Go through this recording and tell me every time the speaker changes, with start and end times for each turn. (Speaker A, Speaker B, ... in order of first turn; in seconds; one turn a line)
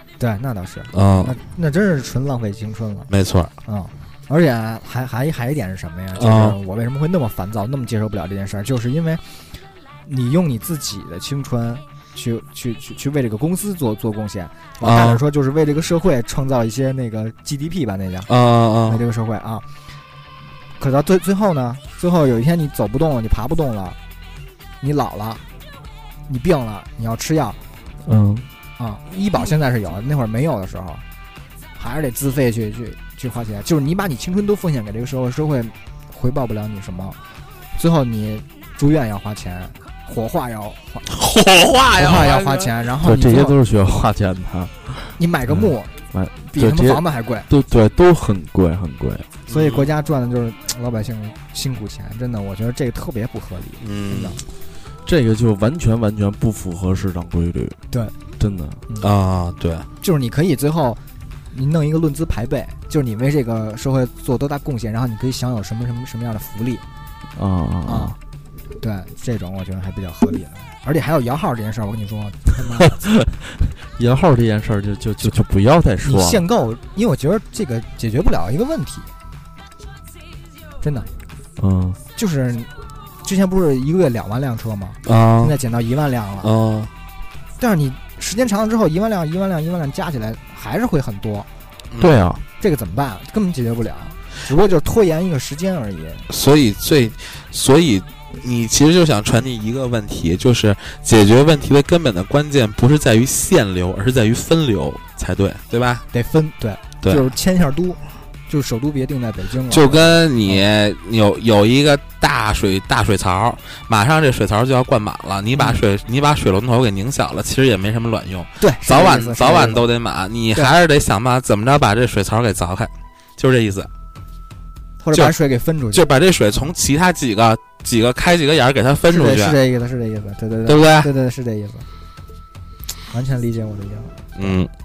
Speaker A: 0.2-3.1
Speaker B: 0.9-1.4
Speaker B: 3.1-3.5
Speaker A: 3.7-18.3
Speaker B: 6.2-6.6
Speaker B: 14.8-15.2
Speaker B: 18.3-19.0
Speaker A: 18.9-19.7
Speaker A: 20.8-24.0
Speaker A: 24.8-25.4
Speaker A: 26.3-27.6
Speaker C: 28.1-28.5
Speaker A: 28.8-31.0
Speaker A: 31.8-37.2
Speaker A: 37.8-41.1
Speaker B: 41.1-42.8
Speaker A: 41.9-43.5
Speaker C: 43.0-49.3
Speaker A: 45.2-46.0
Speaker A: 46.5-47.5
Speaker B: 49.5-49.9
Speaker A: 49.5-54.4
Speaker B: 53.8-54.4
Speaker C: 55.0-57.8
Speaker C: 58.4-58.8
Speaker B: 59.0-59.9
Speaker A: 60.0-66.8
Speaker C: 67.3-68.2
Speaker A: 67.9-68.2
Speaker A: 68.8-73.0
Speaker C: 73.3-76.4
Speaker A: 76.0-79.1
Speaker A: 80.8-81.1
Speaker C: 81.6-82.0
Speaker A: 82.2-82.7
Speaker A: 83.2-86.5
Speaker B: 85.0-85.6
Speaker B: 86.4-86.9
Speaker A: 87.6-91.5
Speaker C: 92.0-92.4
Speaker A: 92.6-96.3
Speaker B: 96.3-106.0
Speaker A: 106.1-110.7
Speaker B: 109.7-123.9
Speaker A: 115.5-115.8
Speaker A: 118.6-119.9
Speaker A: 125.0-126.7
Speaker B: 125.9-129.6
Speaker A: 129.1-131.9
Speaker B: 130.7-131.1
Speaker A: 133.1-134.6
Speaker B: 134.4-134.7